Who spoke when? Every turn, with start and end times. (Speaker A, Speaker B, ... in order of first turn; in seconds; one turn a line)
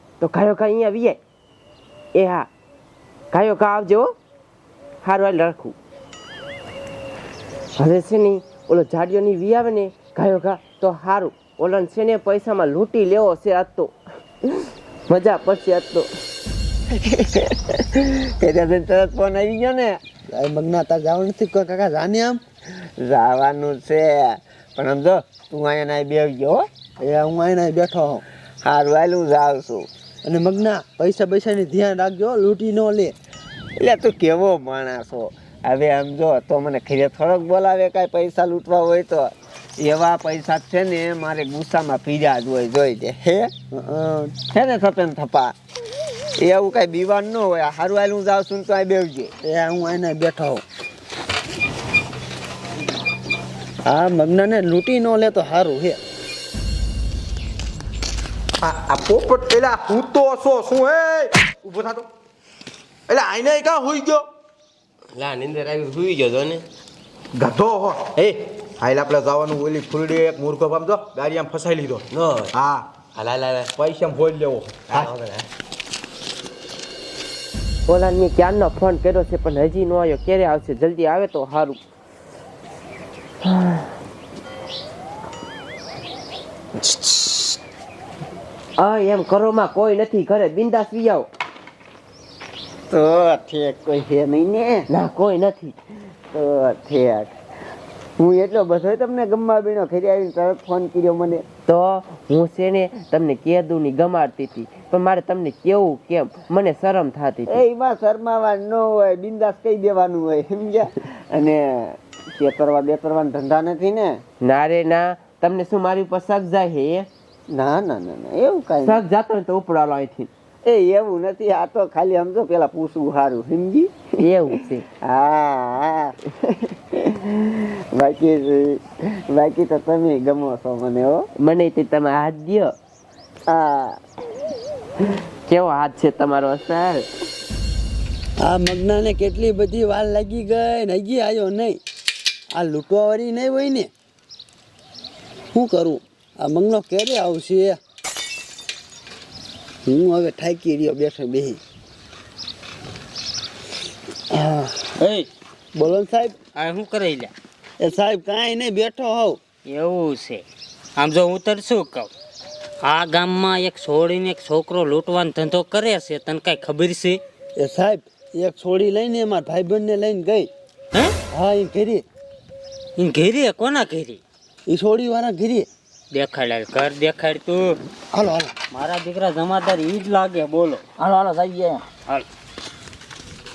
Speaker A: 0.2-1.2
Speaker A: 2.1-2.5
Speaker A: 3.3-4.1
Speaker A: 5.0-5.8
Speaker A: 7.8-13.9
Speaker A: 14.5-16.1
Speaker B: 16.9-20.0
Speaker C: 20.3-22.4
Speaker B: 23.0-26.6
Speaker C: 27.0-28.2
Speaker B: 28.6-29.9
Speaker C: 30.2-33.1
Speaker B: 33.8-43.5
Speaker C: 43.7-44.3
Speaker B: 44.5-45.5
Speaker B: 46.4-49.3
Speaker C: 49.4-50.6
Speaker C: 53.9-56.0
Speaker D: 58.6-62.1
Speaker D: 63.1-64.2
Speaker A: 65.1-66.6
Speaker D: 67.3-72.9
Speaker A: 72.1-72.5
Speaker A: 73.1-73.7
Speaker D: 73.8-75.1
Speaker A: 74.9-75.5
Speaker A: 77.9-81.8
Speaker A: 83.4-83.9
Speaker A: 86.8-87.4
Speaker A: 88.8-91.3
Speaker B: 92.9-94.9
Speaker A: 94.9-95.8
Speaker B: 96.3-97.3
Speaker B: 98.2-101.4
Speaker A: 101.7-107.6
Speaker B: 107.5-114.2
Speaker A: 114.4-117.1
Speaker B: 117.5-119.0
Speaker A: 118.8-120.3
Speaker B: 120.7-123.9
Speaker A: 124.2-124.8
Speaker B: 125.0-131.3
Speaker A: 131.4-132.7
Speaker B: 133.5-134.0
Speaker A: 135.5-137.1
Speaker C: 138.4-141.8
Speaker C: 142.5-143.9
Speaker C: 145.5-147.8
Speaker C: 149.9-151.6
Speaker C: 154.3-154.9
Speaker E: 155.0-155.3
Speaker C: 155.8-156.3
Speaker E: 156.6-157.3
Speaker C: 157.8-159.4
Speaker E: 159.7-160.4
Speaker E: 161.0-162.1
Speaker E: 162.8-167.2
Speaker C: 167.6-170.5
Speaker C: 171.3-172.0
Speaker E: 173.0-174.2
Speaker C: 174.7-175.7
Speaker E: 176.1-177.8
Speaker C: 178.1-178.5
Speaker E: 178.7-180.8
Speaker C: 181.0-181.8